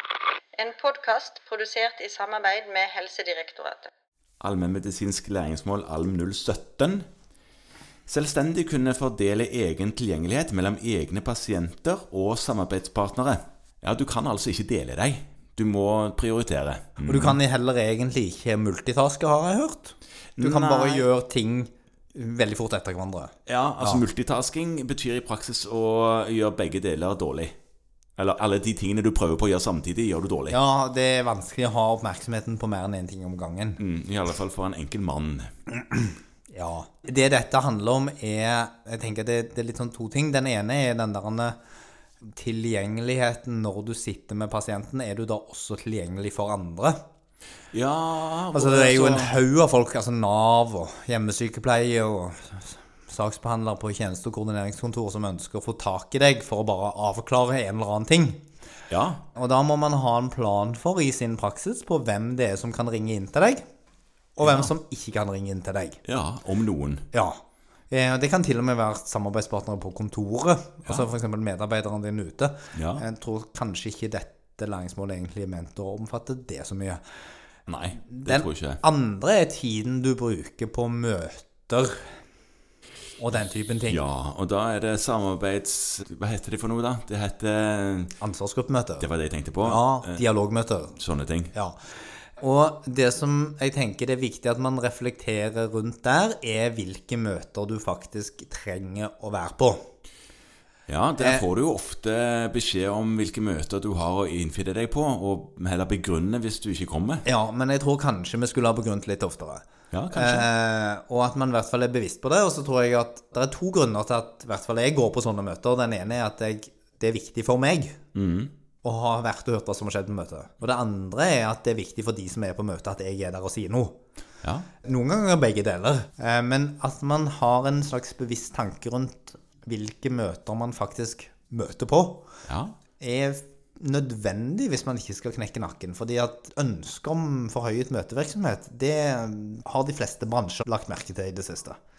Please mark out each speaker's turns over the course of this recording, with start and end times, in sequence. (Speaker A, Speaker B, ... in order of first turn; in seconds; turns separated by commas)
Speaker A: 0.6-3.9, Speaker B: 4.4-7.0, Speaker B: 8.1-17.4, Speaker C: 17.1-24.0, Speaker B: 20.4-21.1, Speaker B: 23.5-27.5, Speaker B: 28.2-30.6, Speaker C: 30.5-33.8, Speaker B: 33.8-35.5, Speaker C: 35.8-41.6, Speaker C: 42.2-47.0, Speaker B: 47.7-49.4, Speaker C: 48.5-58.4, Speaker B: 58.9-59.2, Speaker C: 59.3-63.6, Speaker C: 64.4-66.0, Speaker B: 64.4-64.7, Speaker B: 66.0-67.1, Speaker C: 67.1-67.4, Speaker C: 67.9-77.0, Speaker B: 72.7-73.0, Speaker B: 77.7-78.8, Speaker C: 78.0-82.1, Speaker C: 83.2-84.0, Speaker B: 83.9-88.1, Speaker C: 88.2-89.1, Speaker B: 89.0-90.2, Speaker C: 89.6-91.0, Speaker B: 91.0-91.5, Speaker C: 91.5-91.8, Speaker C: 92.4-99.9, Speaker B: 100.9-107.2, Speaker C: 101.2-101.5, Speaker C: 107.2-118.0, Speaker B: 109.9-110.5, Speaker B: 118.2-118.5, Speaker C: 118.8-124.0, Speaker B: 124.4-124.7, Speaker C: 124.8-132.2, Speaker B: 132.5-132.8, Speaker C: 133.0-141.8